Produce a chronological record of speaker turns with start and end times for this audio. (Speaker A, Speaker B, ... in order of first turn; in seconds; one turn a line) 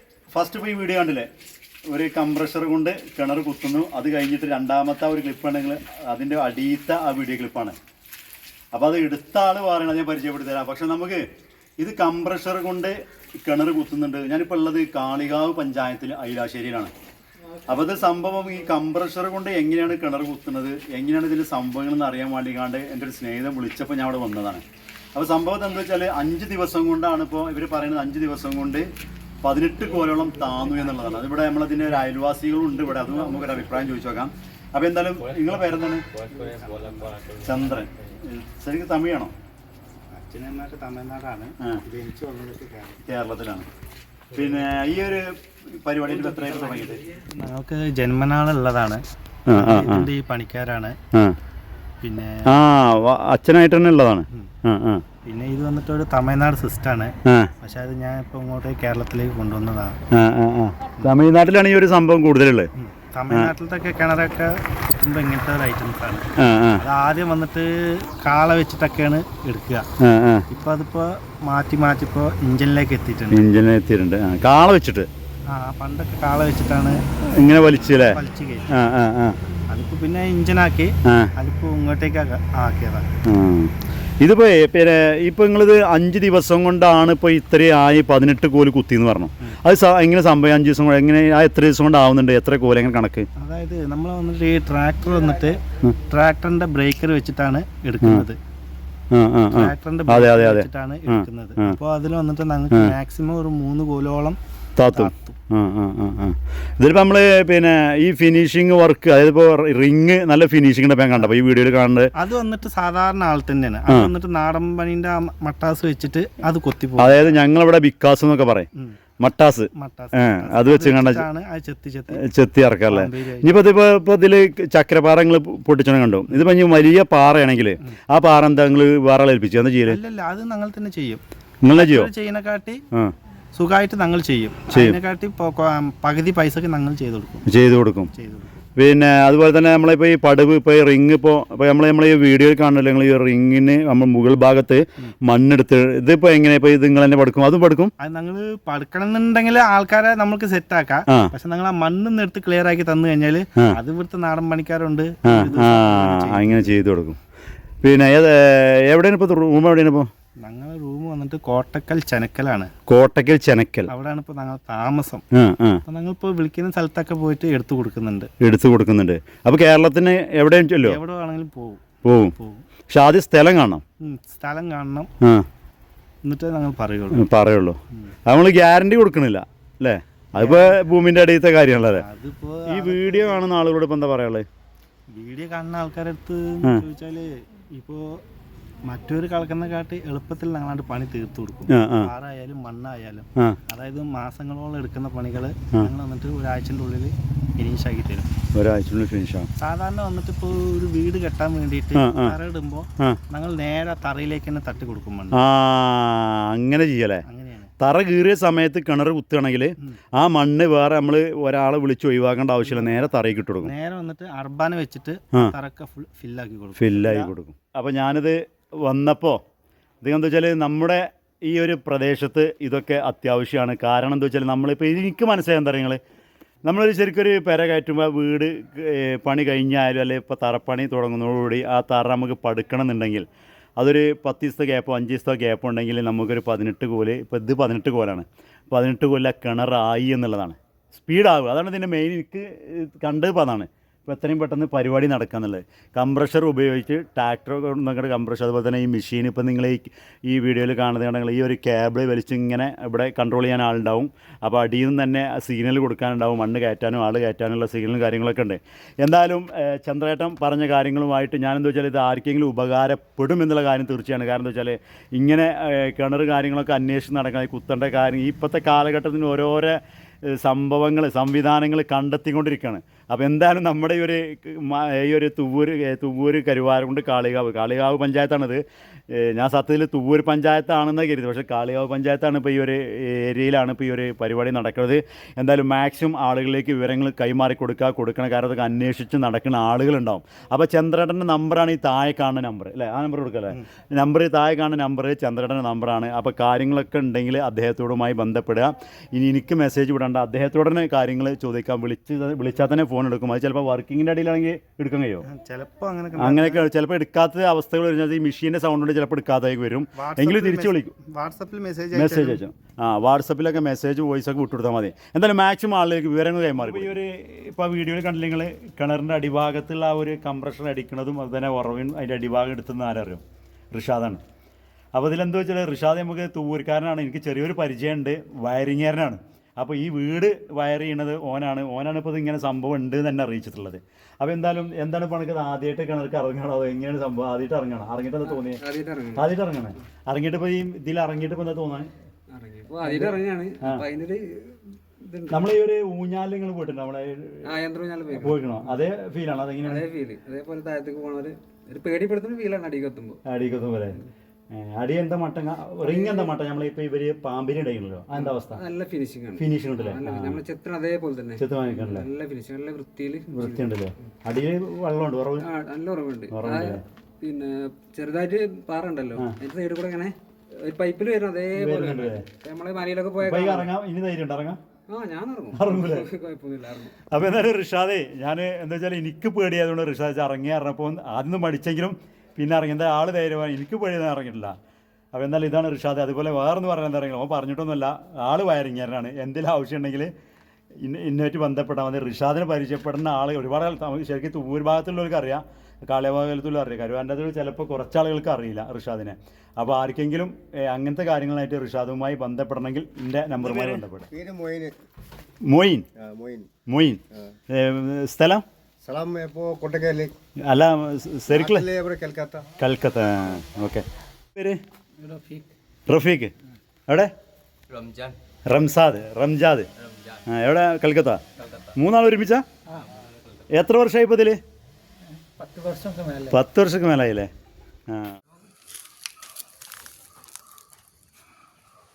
Speaker A: 0.3-1.3
Speaker A: 1.9-7.8
Speaker A: 8.7-11.2
Speaker A: 11.8-16.9
Speaker A: 17.6-24.6
Speaker A: 25.1-28.9
Speaker A: 29.4-36.1
Speaker B: 36.2-37.4
Speaker C: 36.3-37.5
Speaker A: 37.4-39.3
Speaker C: 40.1-43.0
Speaker A: 43.0-43.7
Speaker A: 44.3-47.0
Speaker C: 46.5-51.0
Speaker A: 49.5-50.1
Speaker C: 52.0-52.5
Speaker A: 52.5-55.0
Speaker C: 55.2-60.0
Speaker A: 57.2-57.5
Speaker A: 60.1-62.7
Speaker C: 62.8-69.9
Speaker A: 66.4-66.8
Speaker A: 70.0-70.5
Speaker C: 70.5-73.5
Speaker A: 73.3-75.1
Speaker C: 75.5-77.0
Speaker A: 77.3-78.2
Speaker C: 78.0-78.8
Speaker A: 78.7-79.4
Speaker C: 79.7-83.1
Speaker A: 81.0-81.3
Speaker A: 83.2-93.3
Speaker C: 93.4-98.4
Speaker A: 99.1-101.8
Speaker C: 99.5-104.4
Speaker A: 104.8-112.1
Speaker C: 104.9-105.4
Speaker C: 112.2-117.3
Speaker A: 117.0-118.7
Speaker A: 119.2-121.2
Speaker C: 119.7-122.2
Speaker A: 122.1-130.0
Speaker C: 122.9-123.7
Speaker C: 129.8-131.2
Speaker A: 131.6-132.1
Speaker C: 131.7-132.8
Speaker C: 133.5-137.5
Speaker A: 134.7-135.0
Speaker A: 137.5-138.1
Speaker C: 138.1-138.5
Speaker A: 138.8-147.9
Speaker C: 148.0-156.8
Speaker A: 155.2-157.2
Speaker A: 157.8-160.1
Speaker C: 160.4-162.7
Speaker A: 162.9-163.9
Speaker C: 163.9-165.2
Speaker A: 165.3-165.8
Speaker C: 165.8-168.3
Speaker A: 168.4-171.0
Speaker C: 170.8-171.8
Speaker A: 172.0-172.3
Speaker C: 172.3-172.7
Speaker A: 172.9-173.8
Speaker C: 174.0-175.1
Speaker A: 175.2-175.5
Speaker C: 176.2-177.2
Speaker A: 177.1-182.0
Speaker C: 180.3-180.8
Speaker C: 182.0-183.4
Speaker A: 182.7-184.5
Speaker C: 185.1-188.2
Speaker C: 188.9-198.3
Speaker A: 191.7-192.1
Speaker A: 198.5-199.5
Speaker C: 199.6-205.4
Speaker A: 201.9-202.4
Speaker A: 205.3-207.2
Speaker C: 207.2-207.7
Speaker A: 207.8-213.7
Speaker C: 213.6-217.3
Speaker A: 216.8-219.4
Speaker A: 220.0-226.0
Speaker A: 226.7-233.3
Speaker A: 233.8-305.2
Speaker C: 305.2-306.6
Speaker A: 306.1-310.9
Speaker C: 310.0-312.4
Speaker A: 311.9-323.2
Speaker A: 323.7-324.2
Speaker A: 324.9-338.6
Speaker D: 338.2-339.3
Speaker A: 339.1-341.9
Speaker D: 342.3-345.6
Speaker A: 342.8-343.8
Speaker A: 345.3-347.5
Speaker D: 347.4-348.8
Speaker A: 348.1-349.9
Speaker D: 349.6-353.2
Speaker A: 353.2-358.6
Speaker D: 355.8-356.3
Speaker D: 358.1-363.7
Speaker A: 359.4-360.4
Speaker A: 361.4-362.1
Speaker A: 363.3-365.5
Speaker D: 365.4-373.7
Speaker A: 366.3-366.8
Speaker A: 371.5-372.2
Speaker A: 373.2-374.6
Speaker D: 374.9-376.9
Speaker A: 375.5-376.1
Speaker A: 377.1-384.5
Speaker A: 385.1-390.1
Speaker A: 390.8-404.1
Speaker E: 403.4-404.7
Speaker A: 405.4-405.9
Speaker E: 406.0-406.5
Speaker A: 406.7-408.4
Speaker E: 408.8-410.1
Speaker A: 410.5-411.7
Speaker E: 411.3-412.5
Speaker A: 412.6-413.8
Speaker A: 414.4-414.6
Speaker D: 415.0-415.5
Speaker A: 415.9-416.3
Speaker B: 417.7-418.1
Speaker A: 418.5-419.7
Speaker A: 420.2-422.4
Speaker A: 423.5-424.4
Speaker B: 425.4-426.2
Speaker A: 426.2-427.3
Speaker A: 427.9-428.1